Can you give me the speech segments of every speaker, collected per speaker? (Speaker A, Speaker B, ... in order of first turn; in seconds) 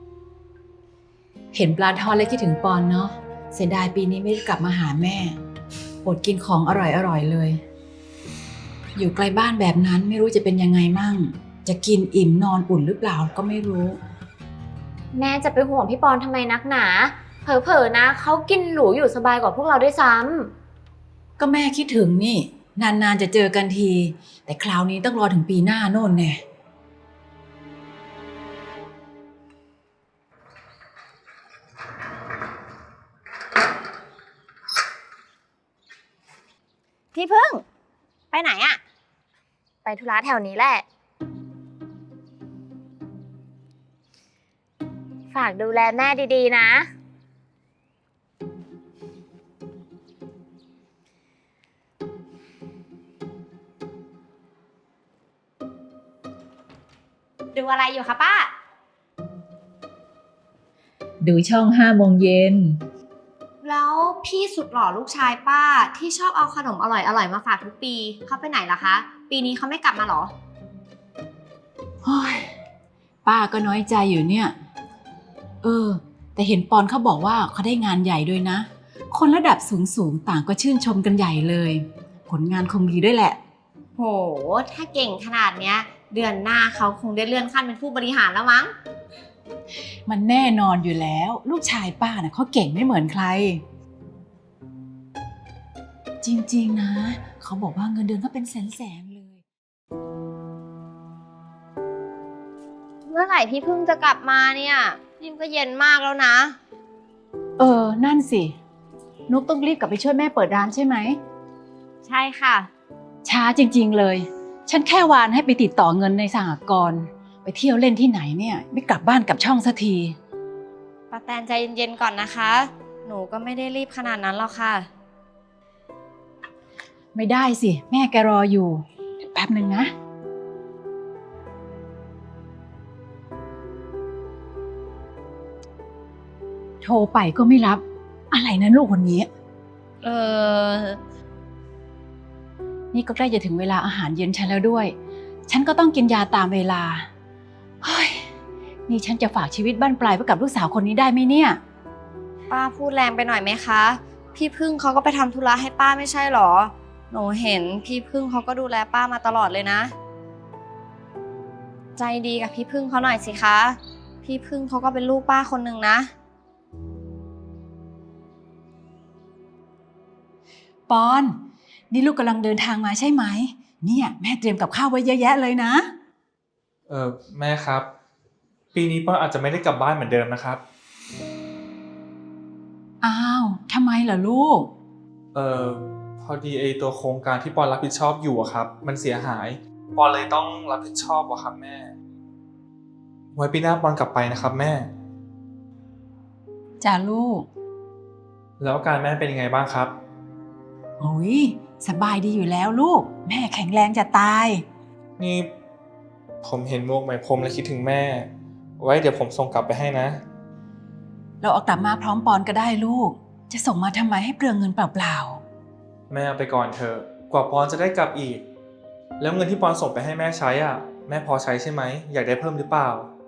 Speaker A: 1.5-5.4, 6.0-7.6, 8.9-14.0, 21.4-26.4, 61.2-62.8, 72.0-72.5, 73.2-74.5, 75.6-83.4, 90.1-93.6, 96.2-99.4, 107.6-108.5, 109.3-111.2, 113.2-120.2, 127.1-129.9, 136.8-139.3, 142.9-144.9, 145.5-147.1, 147.8-148.3, 148.9-151.6, 170.9-171.3, 171.9-175.9, 183.0-184.7, 196.8-197.5, 201.0-204.6, 211.4-215.4
Speaker B: 15.1-20.5, 39.8-40.8, 45.3-46.9
Speaker C: 37.1-37.6, 38.3-38.8, 57.5-58.5, 63.6-70.3, 84.0-88.7, 103.1-106.6, 112.0-112.7, 121.1-124.9, 140.0-141.0, 152.5-159.9, 162.0-166.1
Speaker D: 176.9-177.9, 178.7-180.6, 185.3-191.9, 193.3-194.9, 198.6-199.9, 205.2-205.5, 206.4-210.2, 216.1-218.4, 219.2-223.1